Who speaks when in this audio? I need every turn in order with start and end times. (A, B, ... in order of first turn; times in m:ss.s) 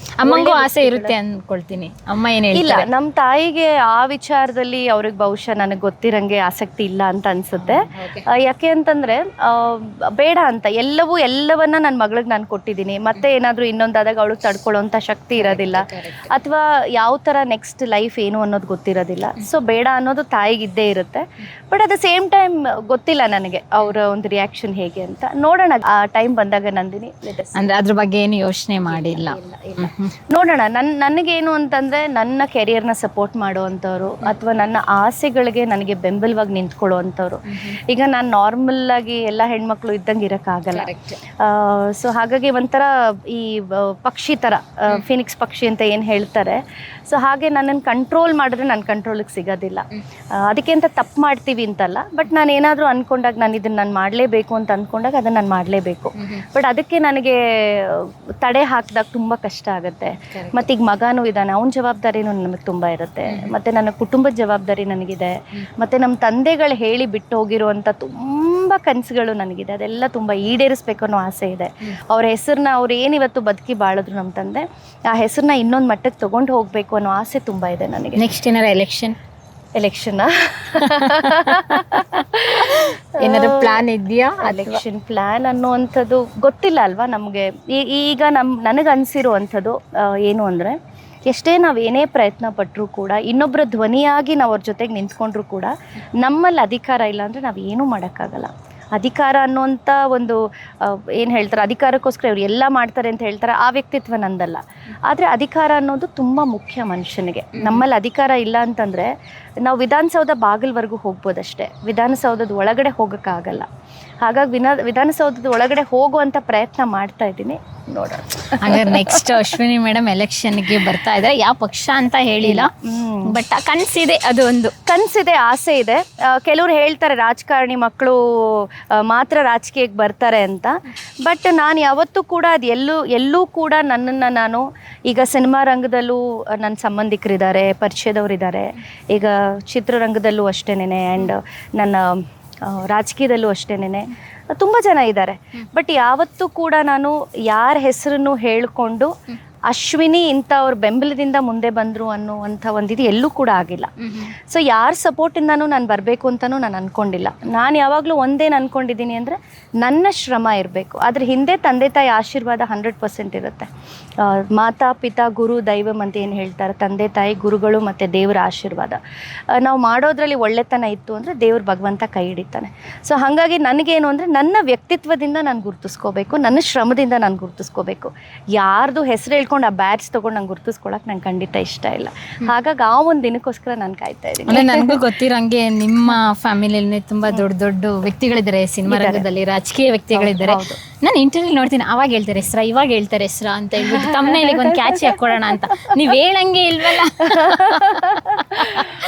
0:00.2-0:02.9 A
0:00.2-0:01.2 B
0:02.5-0:27.6 B
0:07.6-0:08.2 A
0:15.4-0:16.3 A
0:27.6-0:30.1 A
0:28.9-0:49.8 B
0:40.7-0:41.2 A
0:50.4-1:18.2 B
0:56.2-0:56.4 A
1:00.3-1:00.6 A
1:18.2-1:19.2 A
1:19.8-1:23.8 B
1:20.8-1:24.8 A
1:24.4-1:30.8 B
1:31.3-1:49.1 B
1:47.6-1:47.8 A
1:49.6-1:53.7 B
1:54.2-1:59.4 B
1:58.6-2:02.7 A
2:02.4-2:03.3 B
2:03.3-2:04.7 A
2:04.9-2:10.7 B
2:11.2-2:29.1 B
2:29.7-2:43.7 B
2:44.2-2:49.0 B
2:49.6-3:05.0 B
3:04.5-3:18.9 A
3:08.9-3:09.2 B
3:10.1-3:10.8 B
3:13.8-3:15.5 B
3:17.4-3:18.8 B